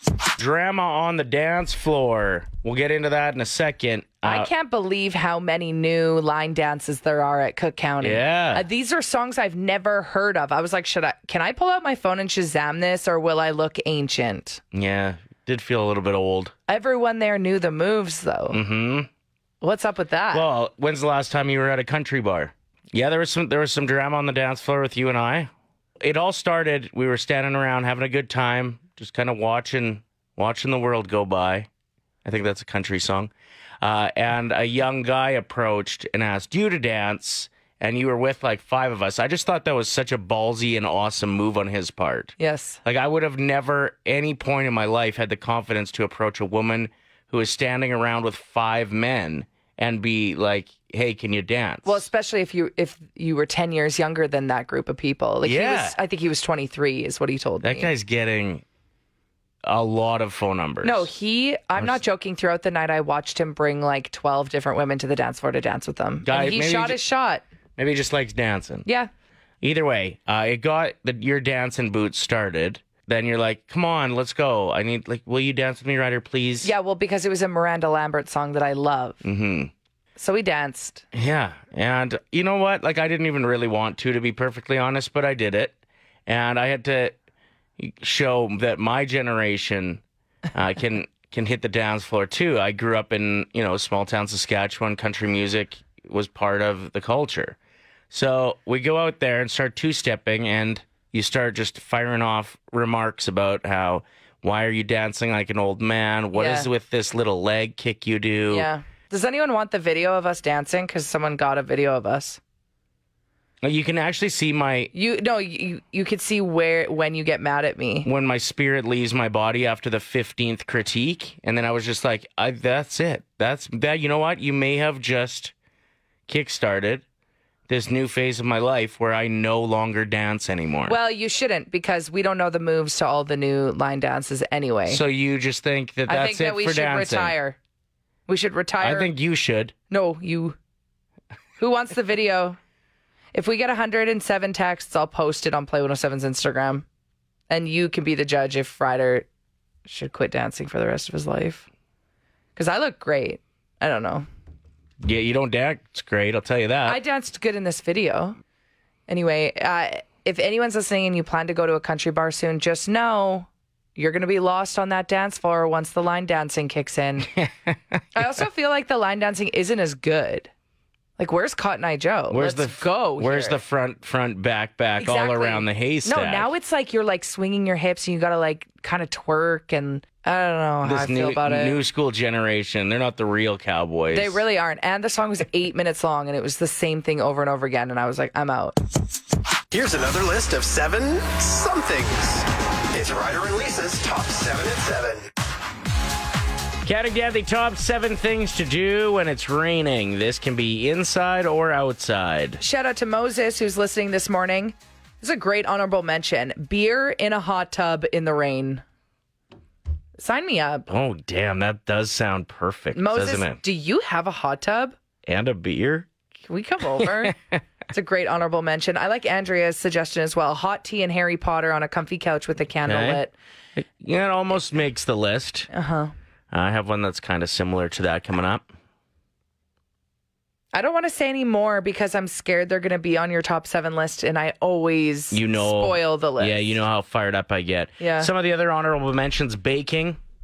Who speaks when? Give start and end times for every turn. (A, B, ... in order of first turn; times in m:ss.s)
0:00.4-0:04.5 A
0:04.2-0:14.6 B
0:08.0-0:08.6 A
0:14.7-0:16.5 A
0:16.7-0:18.6 B
0:18.5-0:19.1 A
0:19.6-0:20.5 B
0:20.3-0:31.7 A
0:32.2-0:52.0 A
0:42.4-0:42.8 B
0:51.8-0:57.9 B
0:55.4-0:56.0 A
0:57.6-0:58.6 A
0:59.6-1:01.1 A
1:00.8-1:07.4 B
1:06.2-1:07.0 A
1:07.8-1:08.9 A
1:08.8-1:09.1 B
1:09.6-1:16.7 A
1:16.6-1:19.2 B
1:19.2-1:19.7 A
1:20.2-1:21.0 B
1:21.1-1:25.8 A
1:26.3-1:27.2 A
1:27.8-1:30.0 A
1:30.5-1:37.6 A
1:38.1-1:48.7 A
1:46.3-1:46.7 B
1:48.5-1:52.4 B
1:53.6-1:54.9 A
1:54.9-1:58.1 B
1:58.0-2:05.5 A
2:06.3-2:07.0 A
2:07.7-2:11.0 A
2:10.9-2:15.0 B
2:14.9-2:17.4 A
2:16.1-2:17.6 B
2:18.3-2:19.1 B
2:18.8-2:19.7 A
2:19.9-2:20.6 B
2:21.6-2:22.6 B
2:23.3-2:26.9 B
2:27.5-2:29.3 B
2:29.9-2:31.7 B
2:32.6-2:34.3 B
2:35.0-2:37.0 A
2:36.9-2:38.4 B
2:39.1-2:47.3 B
2:47.3-2:48.0 A
2:48.2-2:50.5 B
2:51.2-2:53.6 B
2:52.3-2:56.5 A
2:55.0-3:01.8 B
3:00.8-3:04.4 A
3:04.1-3:08.8 B
3:09.7-3:15.3 C
3:16.8-3:22.6 A
3:22.6-3:28.8 B
3:30.2-3:30.9 B
3:30.9-3:33.6 A
3:32.9-3:35.0 B
3:35.3-3:36.1 A
3:36.5-3:37.4 B
3:37.0-3:37.6 A
3:37.9-3:43.3 B
3:42.8-3:43.2 A
3:43.8-3:45.7 A
3:45.7-3:46.1 B
3:46.5-3:48.7 A
3:50.7-3:56.8 B
3:55.3-4:00.2 A
3:58.0-3:58.3 B